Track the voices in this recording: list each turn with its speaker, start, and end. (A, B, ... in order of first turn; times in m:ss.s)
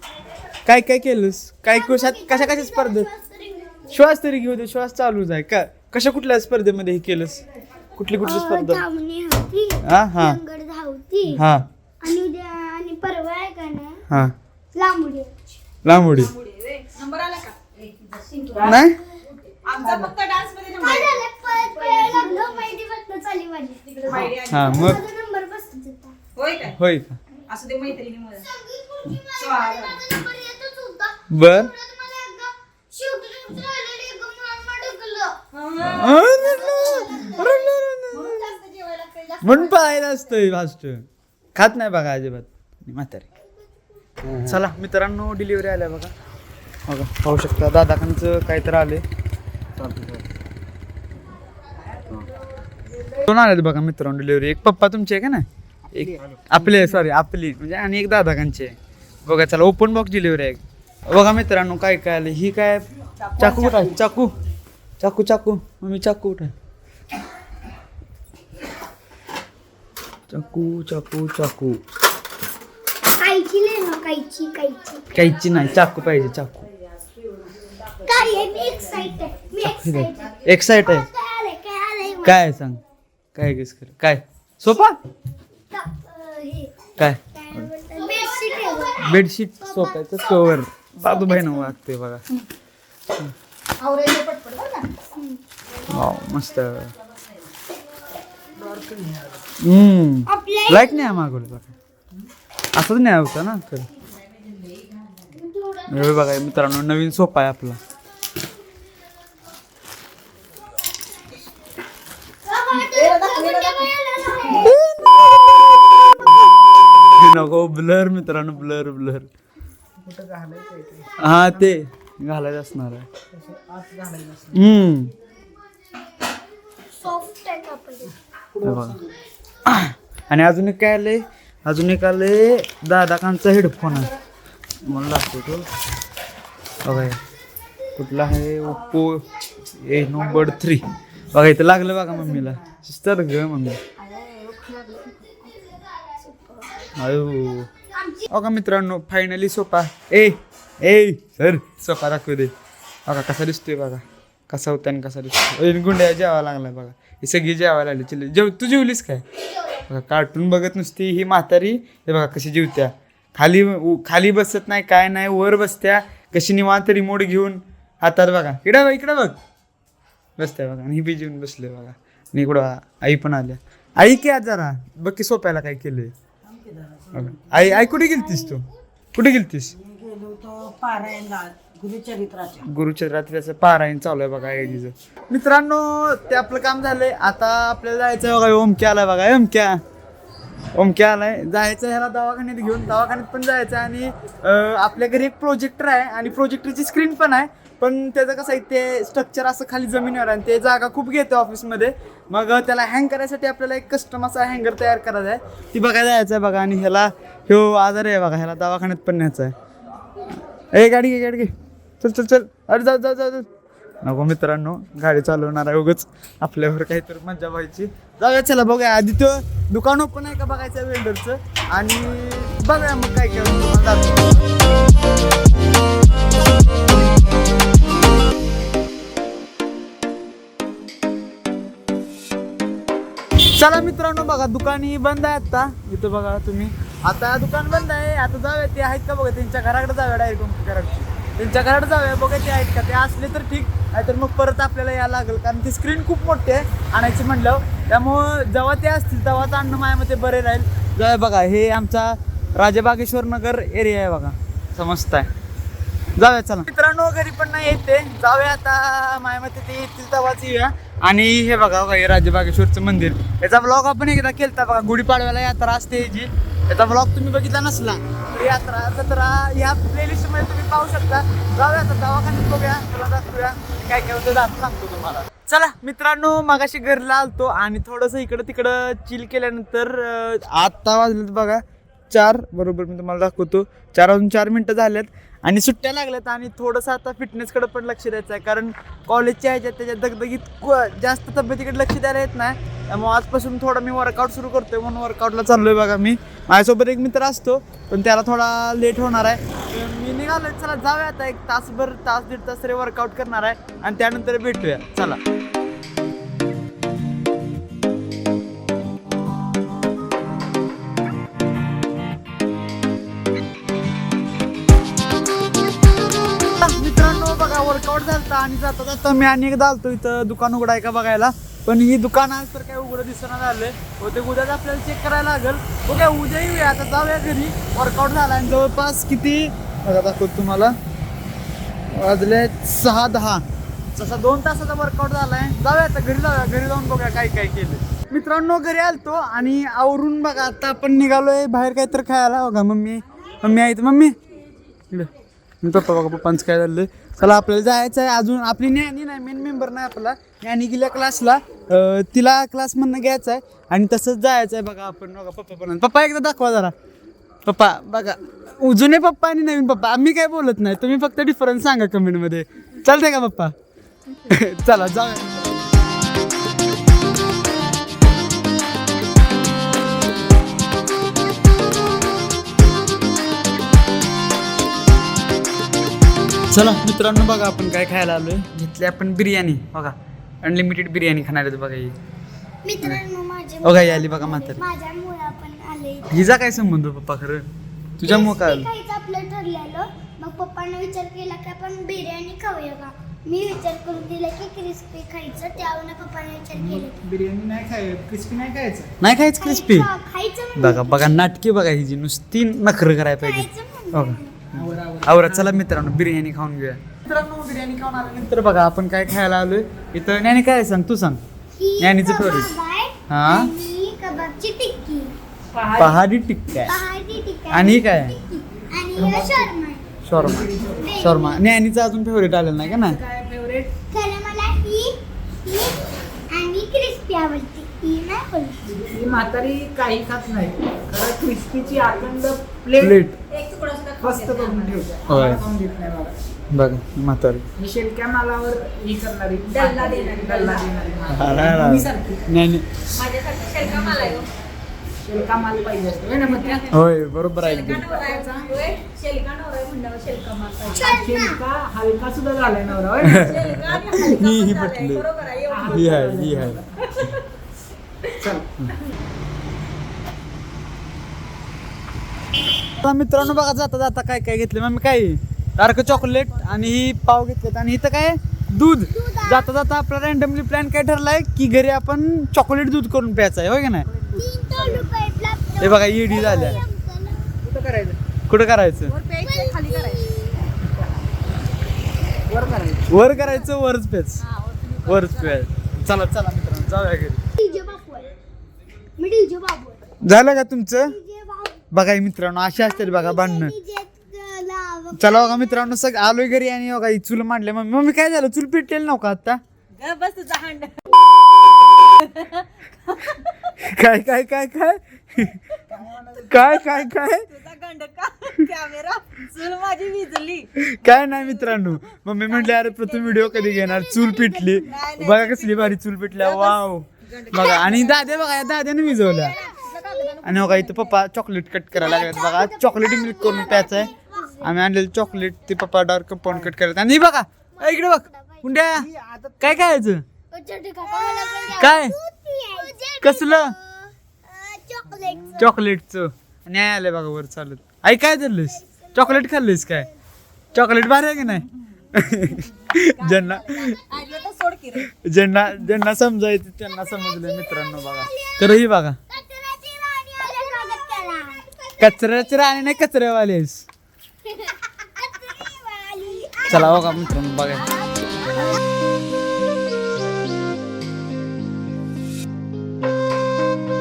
0:00.6-0:03.1 A
0:01.7-0:03.9 B
0:03.9-0:07.4 A
0:08.0-0:08.8 A
0:08.2-0:11.4 B
0:09.8-0:10.4 A
0:11.3-0:11.6 A
0:12.0-0:14.0 B
0:14.1-0:14.3 A
0:14.7-0:15.4 B
0:15.8-0:16.3 A
0:16.1-0:18.8 C
0:18.6-0:19.0 A
0:19.6-0:22.6 C
0:20.7-0:26.2 B
0:23.9-0:24.8 C
0:24.5-0:25.0 A
0:26.3-0:26.8 C
0:26.6-0:27.2 A
0:27.4-0:28.5 C
0:28.4-0:35.4 B
0:29.3-0:30.0 C
0:31.3-0:31.7 A
0:35.5-0:37.2 C
0:35.8-0:38.4 A
0:36.2-0:37.8 B
0:38.1-0:39.8 C
0:39.4-0:41.0 A
0:41.5-0:43.3 A
0:44.3-0:46.1 A
0:46.9-0:49.0 A
0:49.8-0:50.2 A
0:53.1-0:58.7 A
0:55.9-0:57.0 D
0:59.2-1:04.3 A
1:03.2-1:04.0 C
1:05.0-1:06.5 A
1:10.3-1:11.8 A
1:13.0-1:15.1 B
1:15.1-1:16.7 A
1:18.0-1:22.4 B
1:19.6-1:21.1 A
1:22.2-1:22.8 A
1:23.3-1:25.0 A
1:25.7-1:31.7 B
1:27.0-1:27.7 A
1:29.0-1:32.2 A
1:33.8-1:35.0 D
1:35.1-1:35.4 B
1:35.9-1:36.9 A
1:38.5-1:39.4 D
1:39.6-1:41.7 A
1:40.3-1:41.1 B
1:42.7-1:43.9 A
1:45.4-1:46.0 B
1:45.9-1:47.8 A
1:52.4-1:54.8 B
1:52.7-1:53.9 C
1:54.5-1:55.5 A
1:56.1-1:57.5 D
1:57.2-1:59.3 A
2:00.0-2:01.8 D
2:01.2-2:03.0 A
2:03.3-2:04.7 D
2:04.5-2:05.1 A
2:07.0-2:08.1 B
2:08.5-2:09.2 D
2:08.6-2:09.0 A
2:09.7-2:14.1 A
2:14.8-2:15.6 A
2:16.8-2:17.2 A
2:18.0-2:23.8 A
2:20.2-2:20.6 D
2:22.0-2:22.8 D
2:24.0-2:25.3 C
2:26.3-2:26.6 C
2:27.0-2:27.7 A
2:27.9-2:28.3 B
2:28.3-2:32.5 A
2:33.0-2:39.2 A
2:39.8-2:49.4 A
2:50.4-2:56.1 A
2:56.6-2:57.7 D
2:57.1-2:59.7 A
2:59.8-3:02.6 D
3:00.4-3:01.8 C
3:02.6-3:09.8 A
3:10.7-3:29.5 A
3:30.7-3:33.5 A
3:34.0-3:44.4 A
3:53.5-4:15.3 A
4:16.2-5:05.2 A
5:16.6-5:30.8 A
5:31.9-5:33.4 A
5:34.0-5:44.2 A
5:45.6-5:56.7 A
5:57.4-6:03.5 A
6:04.2-6:05.7 A
6:16.5-6:22.0 A
6:22.6-6:26.3 B
6:23.6-6:24.6 A
6:26.1-6:28.7 A
6:28.0-6:37.0 B
6:36.5-6:38.9 D
6:39.0-6:39.9 A
6:39.4-6:41.3 B
6:40.5-6:51.2 A
6:43.2-6:44.4 B
6:44.5-6:45.7 D
6:51.6-6:55.1 B
6:51.8-6:52.5 A
6:53.1-6:53.5 A
6:55.5-6:56.0 D
6:55.8-6:56.8 A
6:56.6-6:59.8 B
6:57.5-6:58.2 A
6:58.9-6:59.5 D
7:00.0-7:03.0 A
7:00.1-7:01.1 D
7:00.8-7:01.4 B
7:02.6-7:03.8 D
7:03.9-7:08.6 B
7:08.7-7:13.0 D
7:12.8-7:13.2 A
7:13.3-7:14.9 C
7:14.0-7:16.2 D
7:15.1-7:15.4 A
7:16.5-7:17.4 A
7:17.6-7:22.2 D
7:19.5-7:20.7 C
7:21.1-7:22.7 A
7:22.9-7:24.3 C
7:23.6-7:24.2 D
7:25.0-7:26.7 D
7:26.2-7:26.8 C
7:26.7-7:27.9 A
7:27.4-7:31.3 C
7:27.7-7:28.5 D
7:30.6-7:33.4 D
7:30.9-7:31.2 B
7:33.0-7:35.1 A
7:33.1-7:36.0 C
7:35.4-7:36.9 D
7:35.7-7:36.6 A
7:36.8-7:37.2 C
7:38.2-7:38.5 D
7:42.8-7:53.9 A
7:48.9-7:49.5 B
7:53.9-7:55.0 D
7:54.2-7:57.4 B
7:55.6-7:56.6 A
7:56.1-7:56.6 D
7:57.4-7:58.0 D
7:58.3-7:58.9 A
7:58.9-8:00.2 C
7:59.2-8:00.5 B
8:02.3-8:03.2 D
8:02.9-8:04.2 A
8:04.2-8:05.4 C
8:04.8-8:07.2 A
8:07.4-8:08.1 B
8:09.0-8:10.0 B
8:10.0-8:11.0 A
8:10.8-8:11.6 B
8:11.7-8:13.5 A
8:12.6-8:15.7 B
8:15.0-8:19.4 A
8:19.8-8:21.0 C
8:22.0-8:23.4 C
8:23.5-8:25.4 A
8:25.7-8:26.6 D
8:26.3-8:27.3 A
8:26.3-8:31.6 C
8:30.6-8:39.4 A
8:32.3-8:38.1 C
8:33.5-8:34.6 B
8:38.0-8:39.6 B
8:39.1-8:41.0 C
8:40.2-8:48.9 A
8:41.8-8:44.5 B
8:46.3-8:46.5 D
8:47.6-8:48.6 B
8:48.7-8:49.7 D
8:49.4-8:50.0 A
8:50.3-8:55.5 B
8:51.5-8:52.0 A
8:53.0-8:53.6 A
8:54.9-8:55.5 D
8:55.4-8:59.9 A
8:58.5-8:59.9 B
9:00.5-9:03.8 A
9:02.8-9:04.9 C
9:04.8-9:09.0 A
9:07.2-9:12.5 B
9:11.8-9:13.7 A
9:14.2-9:17.0 B
9:16.4-9:17.7 A
9:17.6-9:18.6 C
9:18.1-9:18.6 B